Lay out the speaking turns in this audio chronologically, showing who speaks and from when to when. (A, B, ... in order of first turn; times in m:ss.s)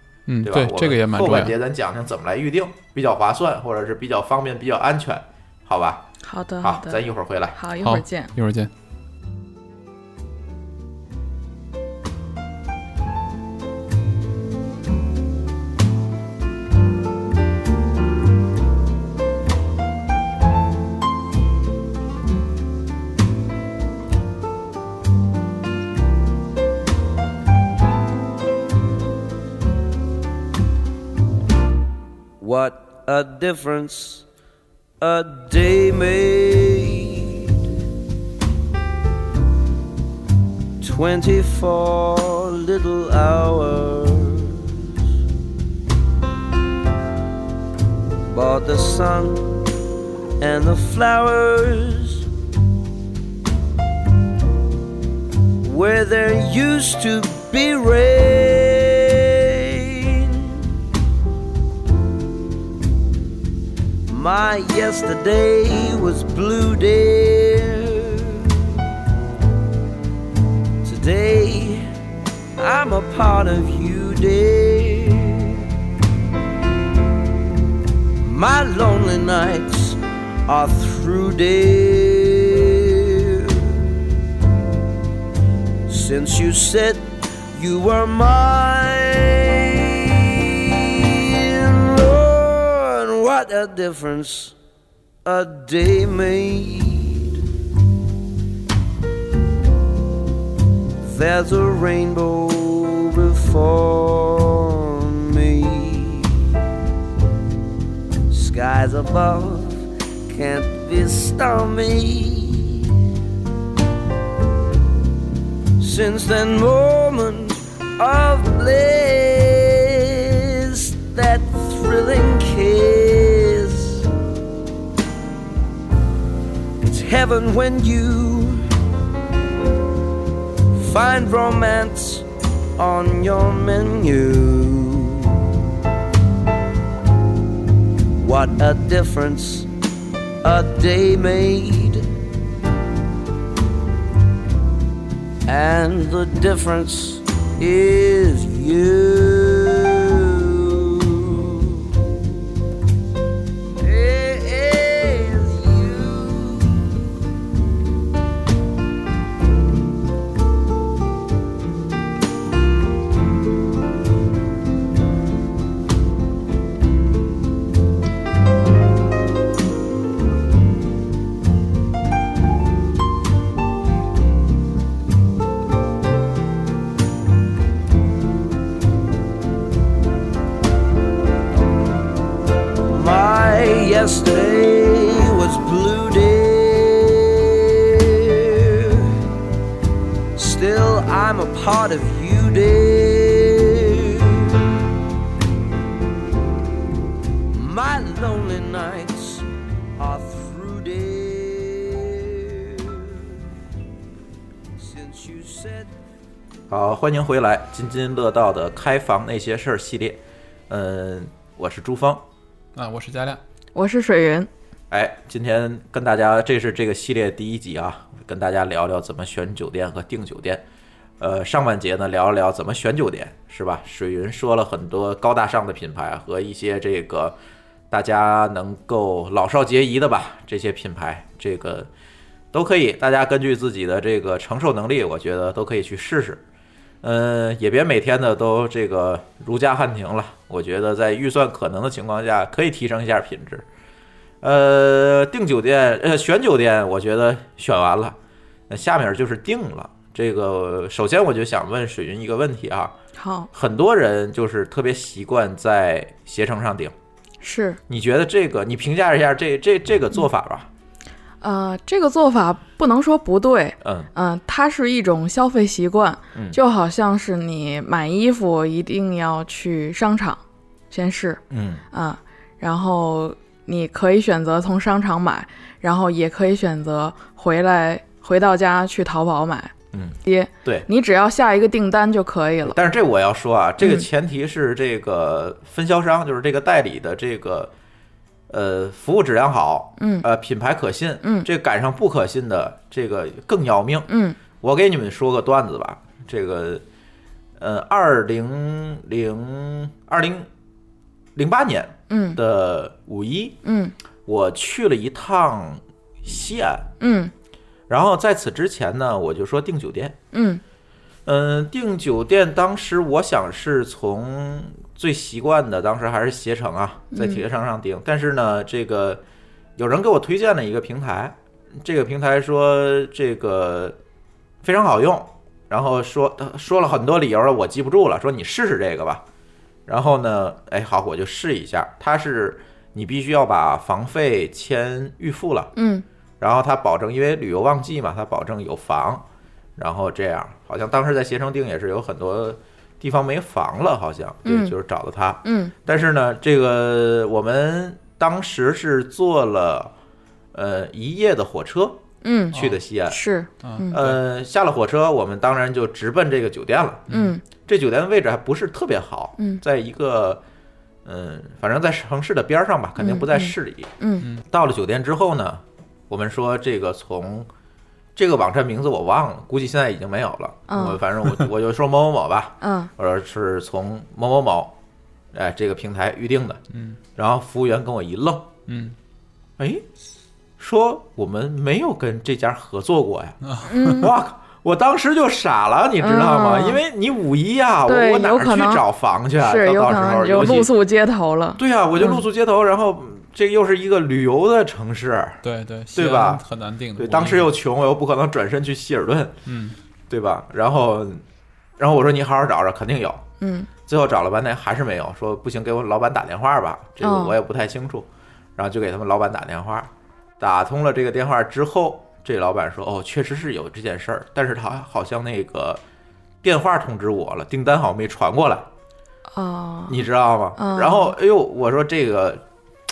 0:00.3-0:01.6 A
0:00.4-0:06.1 B
0:06.2-0:07.0 C
0:06.6-0:07.6 B
0:07.6-0:08.3 C
0:07.8-0:08.7 A
0:32.4-0:34.3 D
0:35.0-0:37.6 D
0:40.8-0:44.7 D
0:48.3-0:49.6 D
0:50.4-0:52.3 D
0:55.6-1:00.6 D
1:04.1-1:08.5 D
1:10.8-1:11.9 D
1:12.6-1:15.6 D
1:18.2-1:23.8 D
1:25.9-1:34.6 D
1:35.2-1:37.4 D
1:41.0-1:46.4 D
1:48.3-1:52.9 D
1:55.8-2:04.1 D
2:06.8-2:08.7 D
2:10.7-2:12.3 D
2:12.8-2:15.3 D
2:18.2-2:19.7 D
2:20.4-2:22.1 D
2:25.5-2:31.9 D
2:33.8-2:36.9 D
3:02.9-3:09.1 D
3:10.4-3:14.6 D
3:17.5-3:19.5 D
3:20.0-3:23.2 D
3:24.8-3:25.9 D
3:26.7-3:32.2 B
3:32.8-3:33.4 A
3:33.8-3:34.5 C
3:34.9-3:40.6 B
3:41.2-3:47.4 B
3:47.9-3:51.9 B
3:52.5-3:56.4 B
3:57.0-4:03.6 B
4:04.4-4:08.2 B
4:08.7-4:13.0 B
4:13.2-4:13.5 C
4:13.5-4:16.9 B
4:17.4-4:17.8 C
4:17.9-4:20.7 B
4:21.4-4:31.4 C
4:23.8-4:24.1 B
4:31.5-4:31.8 B
4:31.9-4:42.8 C
4:39.9-4:40.9 B
4:42.6-4:47.7 B
4:43.8-4:44.1 C
4:48.5-4:56.8 B
4:50.0-4:50.3 C
4:51.2-4:51.5 C
4:54.1-4:54.4 C
4:57.6-5:00.5 B
5:01.4-5:03.6 B
5:02.1-5:02.4 C
5:03.6-5:03.9 C
5:04.3-5:06.9 B
5:07.0-5:07.3 C
5:07.9-5:10.2 B
5:10.3-5:10.6 C
5:11.3-5:19.2 B
5:17.1-5:17.4 C
5:19.8-5:24.0 B
5:24.6-5:29.2 B
5:29.9-5:35.7 B
5:35.8-5:36.0 C
5:36.4-5:39.2 B
5:39.8-5:49.9 B
5:44.4-5:44.7 C
5:45.4-5:45.7 C
5:50.5-5:52.0 B
5:52.2-5:52.6 C
5:52.5-5:53.2 B
5:53.1-5:54.0 C
5:53.6-5:54.2 A
5:53.9-5:57.1 B
5:57.1-5:57.3 A
5:57.1-5:57.4 C
5:57.6-6:00.4 B
6:01.0-6:07.5 B
6:03.0-6:04.3 C
6:08.2-6:14.8 B
6:10.7-6:11.0 C
6:12.6-6:12.9 C
6:15.3-6:16.6 B
6:16.7-6:17.0 A
6:17.2-6:18.5 B
6:18.7-6:19.0 A
6:19.6-6:19.8 B
6:20.6-6:30.7 B
6:23.4-6:24.0 A
6:23.7-6:24.1 C
6:26.0-6:26.8 C
6:27.9-6:28.8 C
6:29.4-6:32.2 C
6:31.6-6:35.4 B
6:35.4-6:37.5 A
6:35.9-6:36.4 B
6:37.0-6:39.4 B
6:39.5-6:39.8 A
6:40.1-6:41.2 B
6:41.8-6:43.2 B
6:43.4-6:43.7 C
6:43.9-6:55.8 B
6:47.0-6:47.4 C
6:56.4-6:58.7 B
6:59.3-7:00.0 C
6:59.9-7:02.4 B
7:00.6-7:01.2 C